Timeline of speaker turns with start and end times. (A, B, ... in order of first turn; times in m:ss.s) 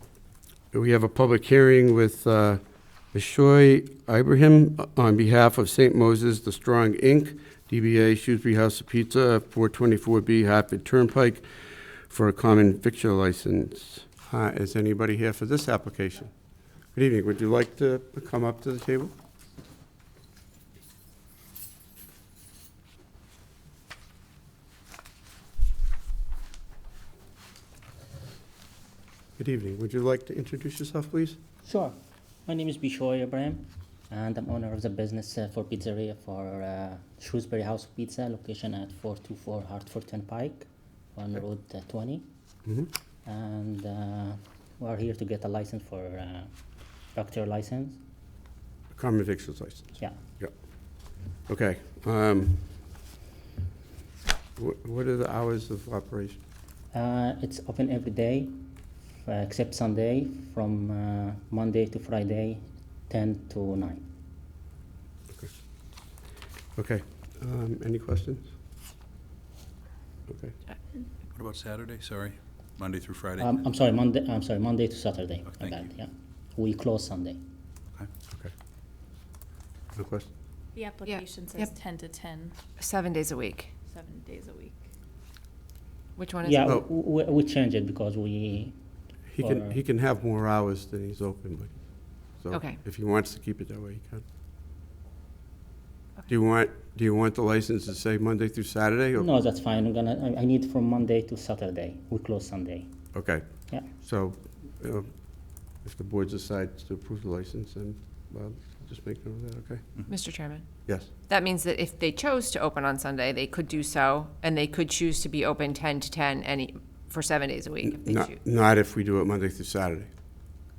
0:00.7-0:02.6 A
0:03.1-0:11.4 A
0:12.1-0:16.3 A
0:16.9-0:19.1 A
0:29.4-0:31.4 A
0:31.6-0:31.9 B
0:32.4-0:42.2 B
0:42.6-0:42.9 A
0:43.2-0:46.5 B
0:47.1-0:48.0 B
0:48.9-0:50.5 A
0:51.5-0:52.7 A
0:54.6-0:56.4 A
0:56.9-0:58.5 B
0:59.2-1:04.0 B
1:06.8-1:08.5 A
1:10.3-1:10.5 A
1:11.3-1:13.6 C
1:13.4-1:17.4 B
1:15.5-1:15.8 C
1:19.9-1:20.3 A
1:20.7-1:22.5 D
1:21.0-1:21.7 E
1:22.8-1:23.7 E
1:23.9-1:24.7 D
1:26.2-1:26.7 E
1:26.4-1:28.7 B
1:29.3-1:31.8 A
1:29.4-1:29.8 B
1:32.4-1:34.2 A
1:32.5-1:32.8 E
1:36.3-1:39.3 A
1:39.2-1:42.9 B
1:43.1-1:45.1 A
1:45.8-1:49.9 A
1:50.1-1:50.6 E
1:51.3-1:58.4 E
1:57.9-2:00.1 A